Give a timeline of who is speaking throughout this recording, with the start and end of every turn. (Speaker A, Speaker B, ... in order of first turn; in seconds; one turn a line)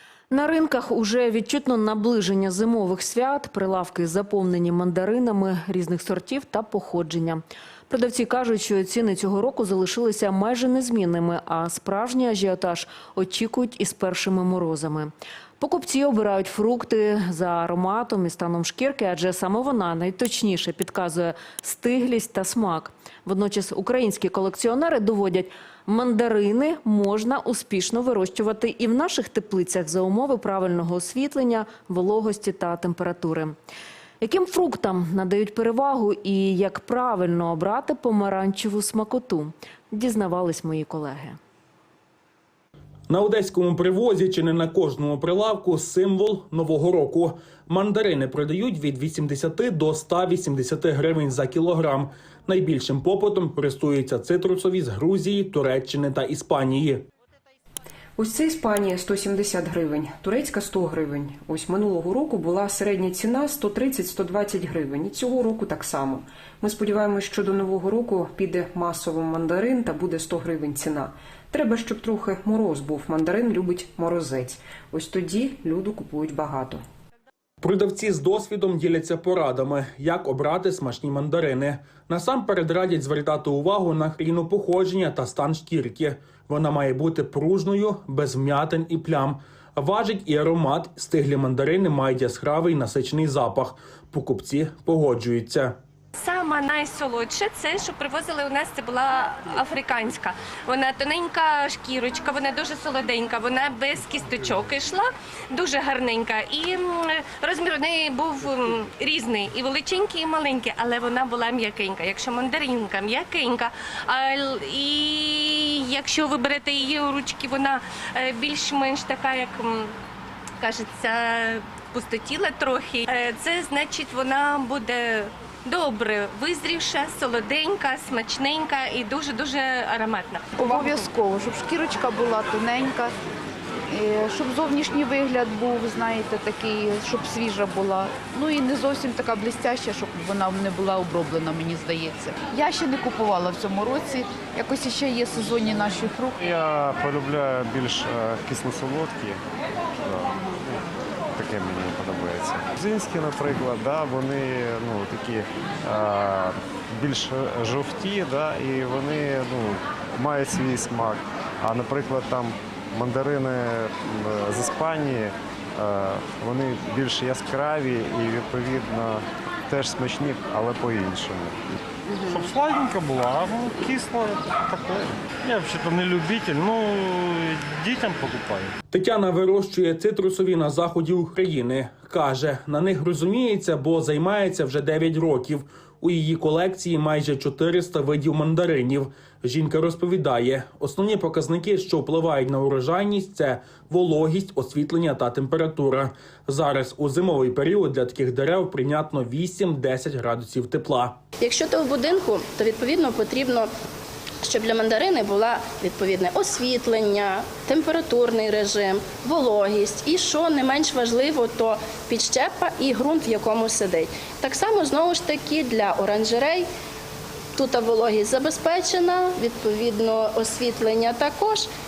Speaker A: 0.3-33.5
Speaker A: 34.2-41.4
Speaker B: 43.1-57.1
Speaker C: 58.2-76.8
Speaker B: 77.6-95.8
Speaker D: 96.2-119.9
Speaker D: 120.6-131.1
Speaker E: 130.6-133.1
Speaker E: 133.9-146.3
Speaker F: 146.4-149.4
Speaker F: 149.9-171.8
Speaker G: 172.2-178.7
Speaker B: 178.9-201.2
Speaker H: 201.4-203.7
Speaker H: 204.4-216.6
Speaker H: 217.5-221.7